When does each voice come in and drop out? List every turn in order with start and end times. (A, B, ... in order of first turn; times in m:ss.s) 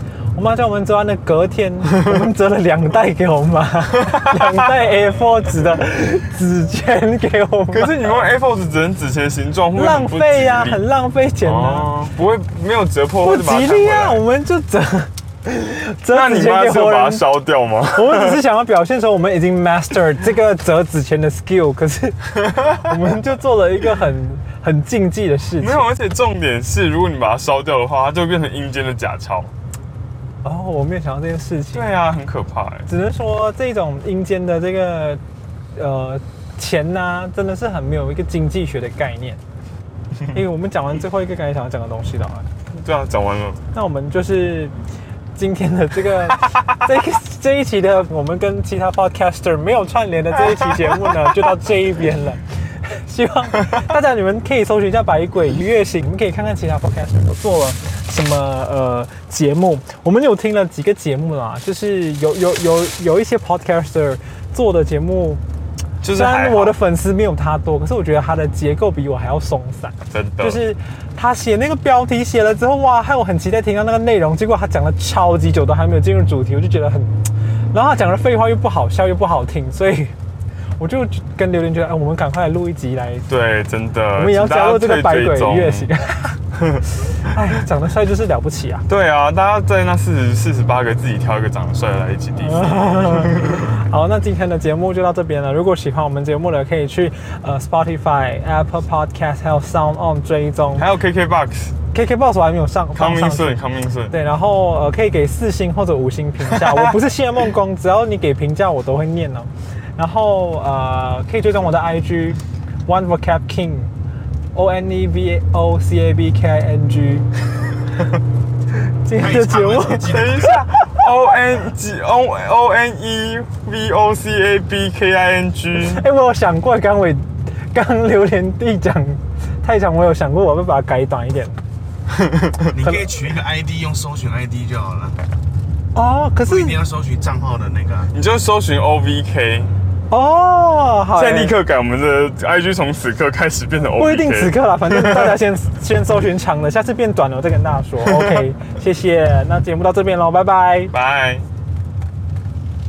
0:00.4-0:08.2 A
0:04.1-0:04.4 B
0:07.7-0:10.8 B
0:09.8-0:11.9 A
0:11.4-0:14.2 B
0:13.2-0:17.2 A
0:16.1-0:18.4 B
0:18.0-0:25.9 A
0:25.6-0:29.5 B
0:30.4-0:31.9 A
0:31.7-0:32.9 B
0:32.9-0:35.2 A
0:35.8-0:39.4 A
0:40.3-0:42.5 A
0:42.7-0:43.6 B
0:43.7-0:44.7 A
0:45.4-1:05.4 A
1:06.0-1:06.8 B
1:06.1-1:20.1 A
1:10.1-1:10.6 B
1:20.8-1:23.3 A
1:23.3-1:25.9 B
1:24.1-1:26.4 A
1:26.6-1:26.8 B
1:27.2-1:28.8 A
1:28.9-1:33.7 B
1:32.4-1:40.9 A
1:40.8-1:41.8 B
1:41.9-1:53.9 A
1:43.0-1:44.1 B
1:46.5-1:47.0 B
1:54.6-1:57.3 A
1:59.0-2:01.0 A
1:59.1-2:00.6 C
2:00.0-2:06.0 B
2:05.8-2:11.6 A
2:12.1-2:12.6 B
2:12.7-2:15.2 C
2:12.8-2:13.1 A
2:16.0-2:16.8 A
2:16.5-2:18.1 C
2:18.1-2:19.7 B
2:20.1-2:21.6 A
2:21.2-2:25.4 B
2:24.0-2:30.9 A
2:28.1-2:28.4 B
2:30.9-2:31.4 B